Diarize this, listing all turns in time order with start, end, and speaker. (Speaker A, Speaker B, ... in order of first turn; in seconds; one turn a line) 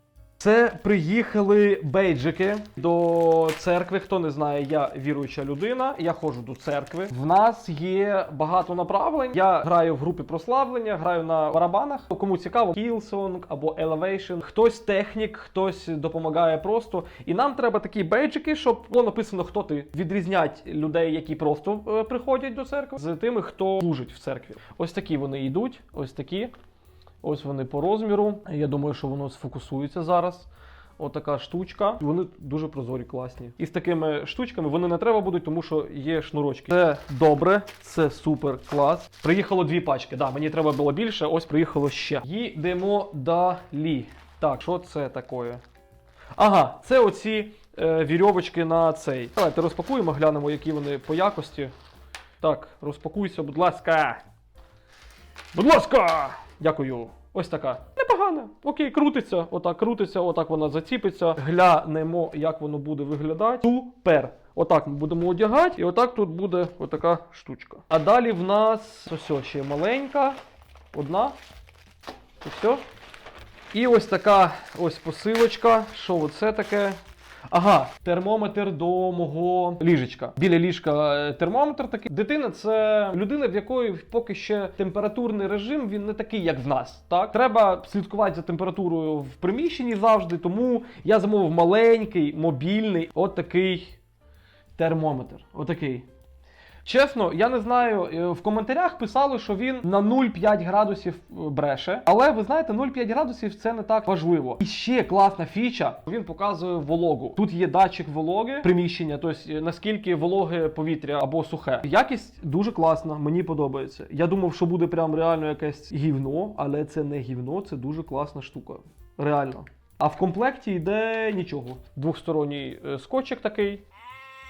Speaker A: 0.4-26.5
Speaker A: 27.2-45.6
Speaker A: 46.4-51.7
Speaker A: 52.4-54.2
Speaker A: 55.5-70.4
Speaker A: 70.9-71.3
Speaker A: 72.4-72.8
Speaker A: 73.7-77.0
Speaker A: 77.5-94.0
Speaker A: 94.8-96.0
Speaker A: 96.8-123.8